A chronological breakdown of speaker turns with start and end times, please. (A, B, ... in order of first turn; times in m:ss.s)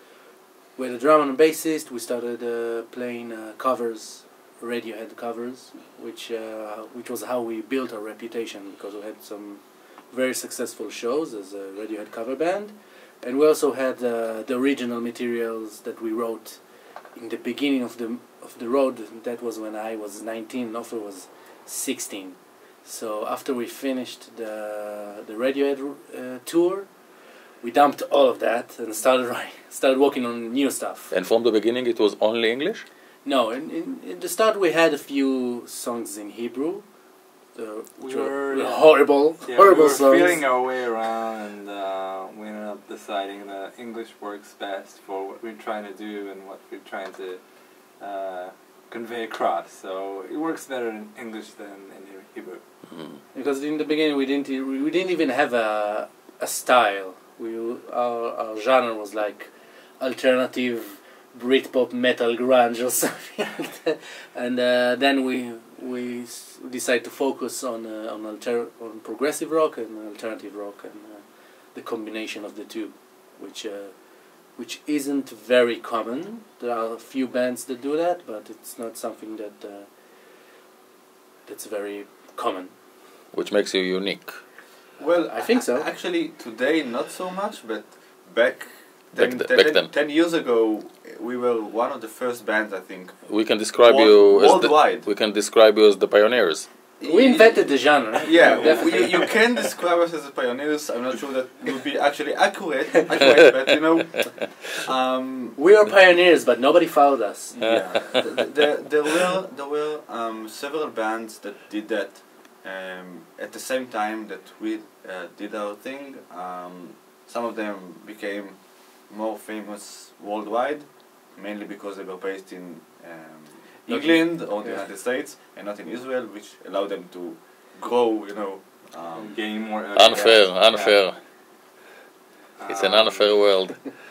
0:00.8-0:16.6 A
0:17.1-0:26.9 A
0:27.6-0:31.1 A
0:31.1-0:32.9 B
0:33.2-0:36.9 A
0:37.5-0:40.5 A
0:38.0-0:52.6 C
0:52.9-0:53.2 B
0:53.3-1:19.9 A
1:21.4-1:22.7 A
1:23.3-1:24.4 B
1:25.0-1:35.1 D
1:25.3-1:25.9 A
1:29.2-1:29.9 B
1:33.3-1:36.7 B
1:37.0-1:45.6 D
1:37.0-1:39.4 A
1:38.7-1:39.1 C
1:45.6-1:48.1 A
1:47.6-2:10.4 D
2:03.9-2:04.9 A
2:09.1-2:11.0 C
2:09.9-2:11.2 B
2:12.6-2:13.5 C
2:12.7-2:13.9 B